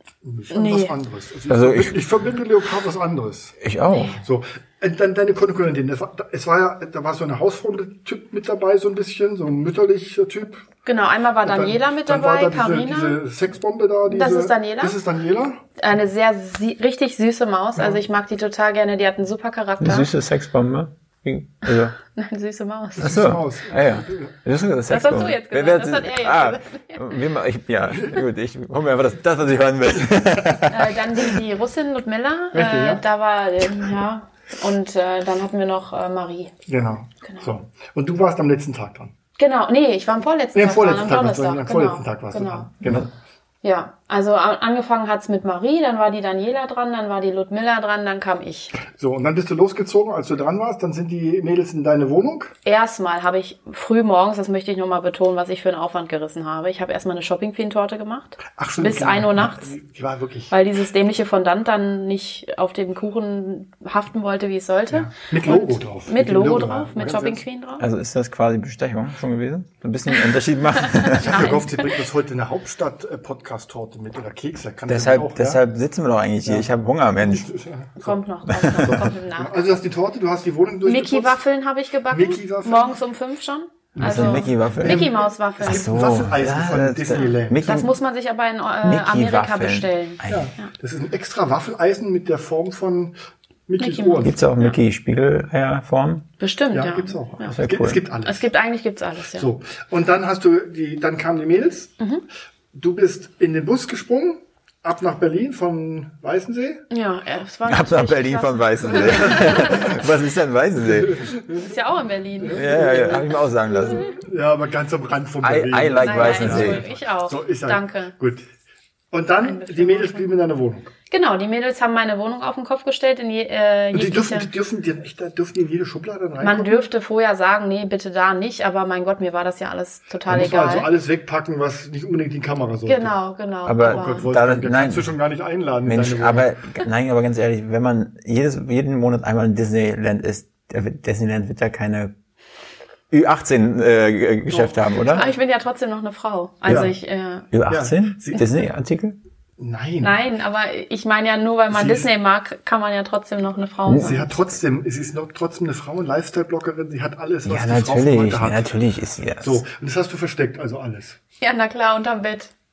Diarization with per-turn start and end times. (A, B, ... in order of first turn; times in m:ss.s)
0:00.2-0:03.6 A
0:00.5-0:00.9 B
0:01.5-0:02.0 C
0:03.6-0:04.2 C
0:03.9-0:04.2 B
0:04.2-0:10.6 A
0:10.8-0:13.2 B
0:11.4-0:15.6 A
0:14.1-0:15.0 B
0:15.8-0:20.1 B
0:19.8-0:22.0 C
0:22.0-0:23.2 B
0:23.0-0:24.3 A
0:23.0-0:30.9 C
0:24.9-0:27.1 B
0:30.7-0:36.5 B
0:32.5-0:33.0 A
0:36.7-0:39.1 A
0:39.4-0:42.7 B
0:40.5-0:43.1 A
0:43.6-0:48.8 B
0:48.8-0:52.5 A
0:52.6-0:59.7 B
0:58.5-1:00.5 A
1:00.5-1:07.8 B
1:04.9-1:07.4 A
1:07.8-1:11.5 C
1:10.9-1:11.9 B
1:11.2-1:15.6 A
1:14.9-1:17.5 C
1:16.4-1:18.2 A
1:18.0-1:19.6 B
1:18.5-1:19.0 C
1:18.7-1:21.4 A
1:20.8-1:26.1 B
1:22.1-1:23.0 A
1:23.9-1:27.6 A
1:24.0-1:25.1 C
1:25.6-1:27.9 C
1:27.6-1:30.7 B
1:28.8-1:30.5 C
1:30.3-1:33.1 A
1:33.7-1:34.4 A
1:33.8-1:34.8 B
1:34.2-1:36.2 C
1:36.4-1:37.5 B
1:36.7-1:38.4 A
1:37.4-1:38.0 C
1:38.2-1:39.5 B
1:39.3-1:42.0 A
1:42.7-1:46.8 A
1:46.9-1:49.9 B
1:47.7-1:51.2 C
1:49.2-1:49.7 A
1:50.9-1:51.7 A
1:51.6-1:52.8 B
1:52.4-1:53.4 A
1:52.5-1:54.1 C
1:53.9-1:58.4 A
1:55.4-1:56.8 C
1:56.0-1:58.1 B
1:59.1-2:00.9 A
1:59.4-2:00.3 B
2:01.1-2:04.5 B
2:03.9-2:06.8 A
2:06.4-2:10.9 B
2:10.2-2:13.1 A
2:12.8-2:14.3 B
2:13.6-2:15.1 C
2:13.8-2:16.5 A
2:15.8-2:22.1 C
2:23.1-2:25.2 C
2:24.9-2:27.5 B
2:26.7-2:26.9 A
2:27.5-2:29.2 C
2:27.7-2:28.4 A
2:29.6-2:30.1 A
2:30.0-2:34.4 B
2:31.7-2:32.1 A
2:33.9-2:34.1 C
2:34.0-2:38.7 A
2:37.4-2:39.6 C
2:39.4-2:41.2 A
2:41.4-2:42.5 B